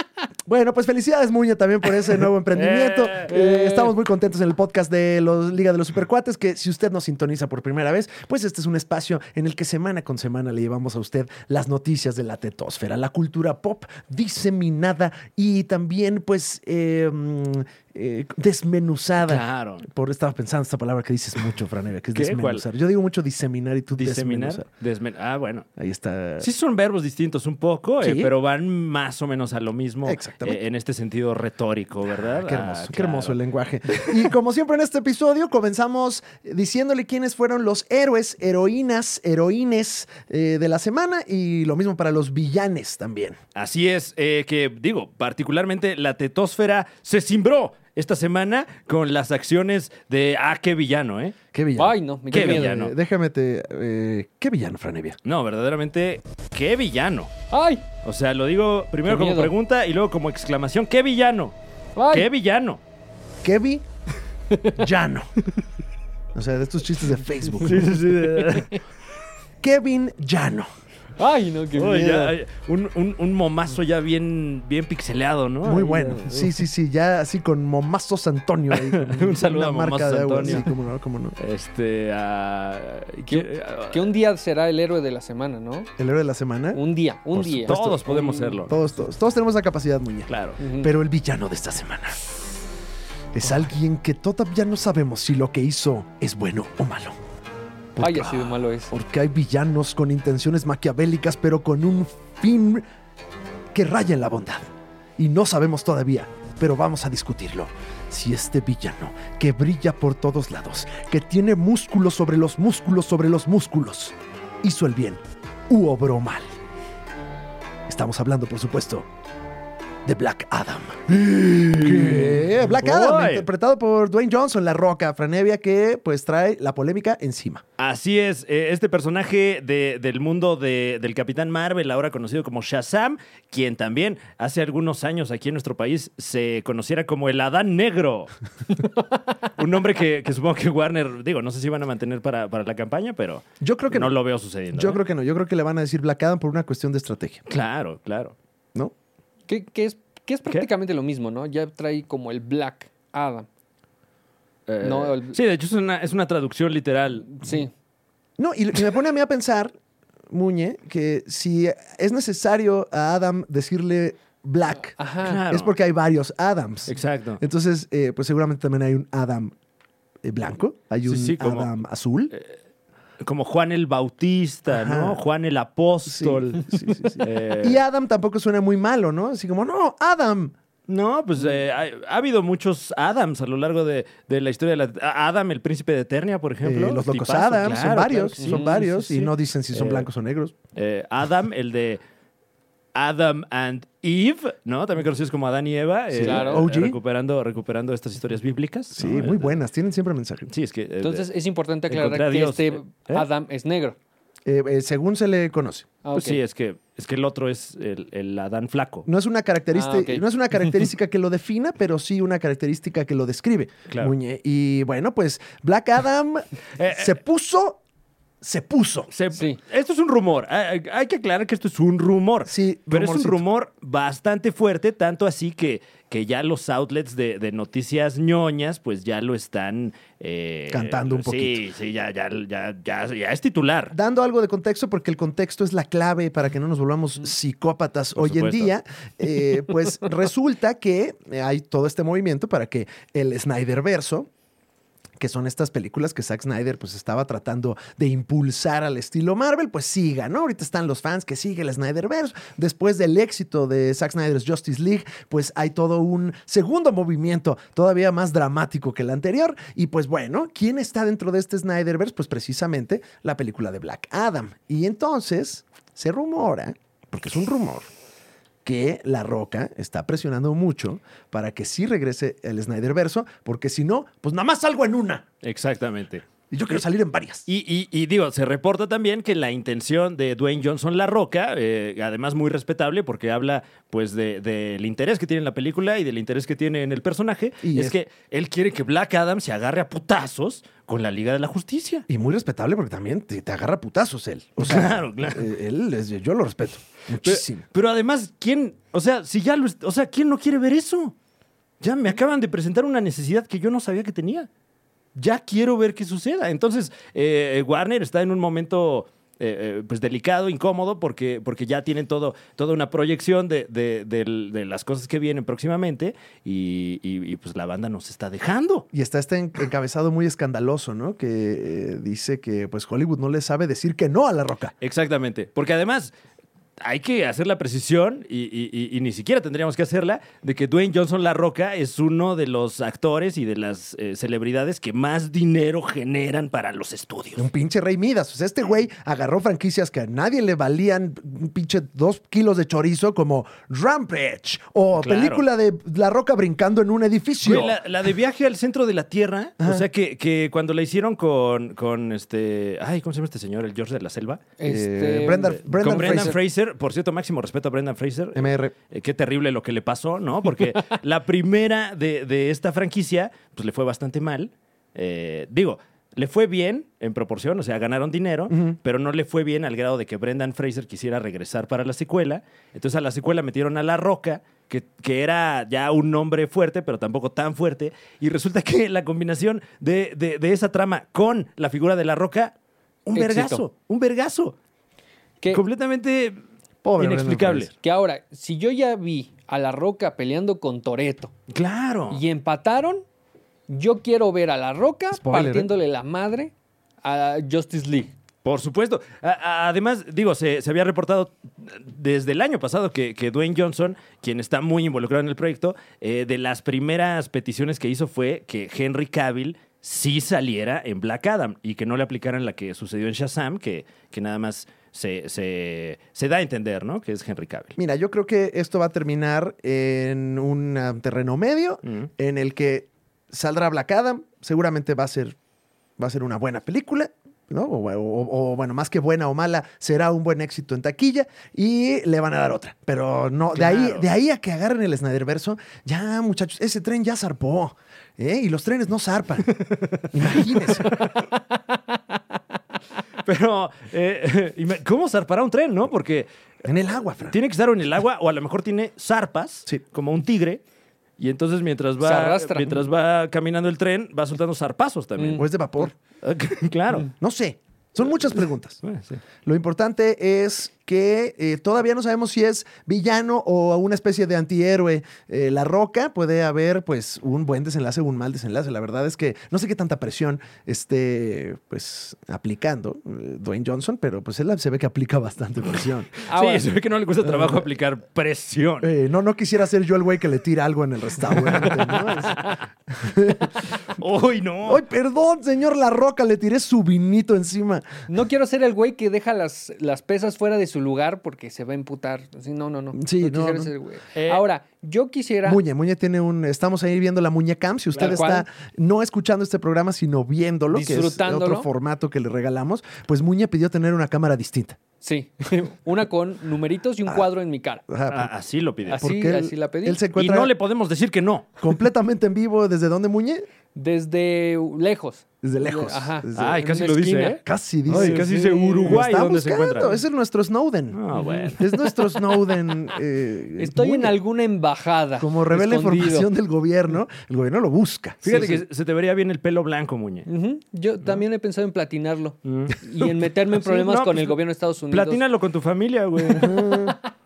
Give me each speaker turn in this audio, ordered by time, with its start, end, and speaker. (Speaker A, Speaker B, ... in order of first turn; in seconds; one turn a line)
Speaker A: 0.5-24.6
Speaker B: 2.5-3.3
Speaker C: 3.3-4.0
Speaker B: 19.2-19.9
Speaker B: 22.1-22.6
Speaker B: 24.0-25.7
Speaker A: 25.8-26.5
Speaker B: 26.4-33.4
Speaker A: 28.0-28.3
Speaker A: 30.0-30.6
Speaker A: 32.4-43.4
Speaker B: 33.9-34.2
Speaker B: 43.5-51.4
Speaker A: 51.5-55.2
Speaker C: 51.8-52.8
Speaker B: 52.3-52.9
Speaker B: 55.2-57.3
Speaker C: 57.5-57.8
Speaker B: 58.0-61.5
Speaker C: 59.0-59.5
Speaker C: 62.0-62.3
Speaker B: 62.1-62.8
Speaker A: 63.4-63.8
Speaker A: 64.7-65.3
Speaker A: 66.3-68.3
Speaker B: 67.6-68.8
Speaker A: 69.6-70.7
Speaker C: 71.2-72.3
Speaker B: 71.7-76.1
Speaker A: 75.6-81.3
Speaker C: 75.7-76.4
Speaker B: 78.7-80.7
Speaker B: 81.4-84.1
Speaker C: 83.3-85.9
Speaker A: 86.0-86.8
Speaker C: 86.7-88.6
Speaker A: 87.3-88.0
Speaker B: 87.6-88.8
Speaker A: 88.7-92.2
Speaker B: 90.3-90.6
Speaker C: 90.6-90.9
Speaker A: 93.3-97.2
Speaker A: 97.9-102.8
Speaker C: 98.0-98.9
Speaker A: 103.7-104.7
Speaker A: 105.2-116.5
Speaker A: 117.9-119.1
Speaker A: 120.0-127.6
Speaker B: 121.1-123.5
Speaker B: 127.8-138.3
Speaker B: 139.4-145.0
Speaker A: 143.6-144.2
Speaker A: 144.7-147.4
Speaker B: 147.5-148.3
Speaker C: 149.5-153.5
Speaker B: 154.7-157.4
Speaker C: 154.8-155.4
Speaker C: 157.4-157.7
Speaker A: 158.4-159.7
Speaker A: 160.3-169.5
Speaker C: 165.0-165.4
Speaker B: 165.2-165.7
Speaker B: 166.9-167.4
Speaker A: 170.2-172.3
Speaker B: 171.1-171.7
Speaker B: 173.2-177.8
Speaker A: 174.7-175.2
Speaker A: 176.0-180.5
Speaker B: 180.9-190.1
Speaker A: 186.6-190.5
Speaker C: 188.4-188.8
Speaker B: 190.8-192.0
Speaker B: 192.9-199.6
Speaker A: 196.1-197.0
Speaker C: 196.2-196.7
Speaker A: 198.9-200.5
Speaker B: 200.5-201.2
Speaker C: 201.0-204.0
Speaker B: 201.9-203.2
Speaker A: 204.4-205.9
Speaker C: 206.0-206.4
Speaker B: 206.1-209.1
Speaker A: 209.1-217.8
Speaker C: 209.7-210.2
Speaker B: 216.8-217.1
Speaker A: 218.4-219.1
Speaker B: 219.1-233.9
Speaker C: 219.3-219.6
Speaker A: 222.5-223.4
Speaker A: 230.7-231.6
Speaker A: 233.9-244.3
Speaker B: 238.2-238.7
Speaker A: 245.2-267.9
Speaker A: 268.6-275.2
Speaker B: 275.4-276.2
Speaker A: 276.5-277.4
Speaker B: 277.5-292.1
Speaker A: 287.6-288.0
Speaker A: 292.1-297.6
Speaker B: 294.6-295.4
Speaker B: 297.2-301.1
Speaker B: 301.8-304.5
Speaker B: 305.1-318.9
Speaker A: 318.9-324.7
Speaker B: 324.8-326.1
Speaker B: 326.8-337.5
Speaker A: 337.4-347.8
Speaker B: 344.9-345.4
Speaker B: 347.4-354.5
Speaker A: 349.6-349.9
Speaker C: 354.6-356.3
Speaker A: 354.6-356.4
Speaker B: 355.6-382.5
Speaker A: 358.3-358.7
Speaker A: 368.5-368.8
Speaker B: 383.1-384.6
Speaker C: 383.1-383.6
Speaker B: 385.5-386.4
Speaker A: 386.8-387.7
Speaker B: 387.0-387.7
Speaker C: 387.8-391.3
Speaker B: 391.5-392.2
Speaker C: 392.1-393.0
Speaker C: 393.7-398.1
Speaker A: 395.1-395.7
Speaker B: 398.4-417.7
Speaker A: 417.8-425.4
Speaker A: 426.0-439.5
Speaker B: 433.5-434.1
Speaker B: 439.5-441.1
Speaker A: 440.1-441.0
Speaker B: 443.2-446.3
Speaker A: 446.6-447.4
Speaker B: 447.3-450.6
Speaker B: 451.2-455.5
Speaker C: 452.0-452.8
Speaker A: 455.3-455.9
Speaker B: 456.2-457.1
Speaker A: 457.2-458.8
Speaker B: 458.8-459.2
Speaker A: 459.4-476.1
Speaker B: 476.2-478.9
Speaker C: 476.3-476.7
Speaker A: 477.2-477.6
Speaker A: 478.8-483.7
Speaker B: 481.3-482.6
Speaker B: 483.8-484.8
Speaker A: 484.6-487.9
Speaker C: 488.1-495.6
Speaker A: 492.9-493.7
Speaker B: 494.1-494.4
Speaker A: 495.4-504.8
Speaker C: 497.9-498.4
Speaker C: 500.7-501.7
Speaker C: 505.0-507.8
Speaker A: 507.9-508.3
Speaker B: 508.1-509.0
Speaker C: 508.9-510.0
Speaker A: 509.0-510.5
Speaker B: 510.1-511.5
Speaker A: 511.6-513.4
Speaker C: 513.7-519.0
Speaker A: 515.4-516.6
Speaker B: 516.3-520.0
Speaker A: 517.4-518.3
Speaker A: 518.8-524.2
Speaker B: 520.9-521.7
Speaker C: 521.1-522.2
Speaker C: 523.6-526.3
Speaker A: 525.2-528.6
Speaker B: 528.2-530.3
Speaker C: 528.2-528.6
Speaker C: 530.2-535.2
Speaker B: 532.4-532.8
Speaker B: 533.5-534.4
Speaker B: 534.9-536.9
Speaker A: 536.3-537.0
Speaker C: 536.4-536.9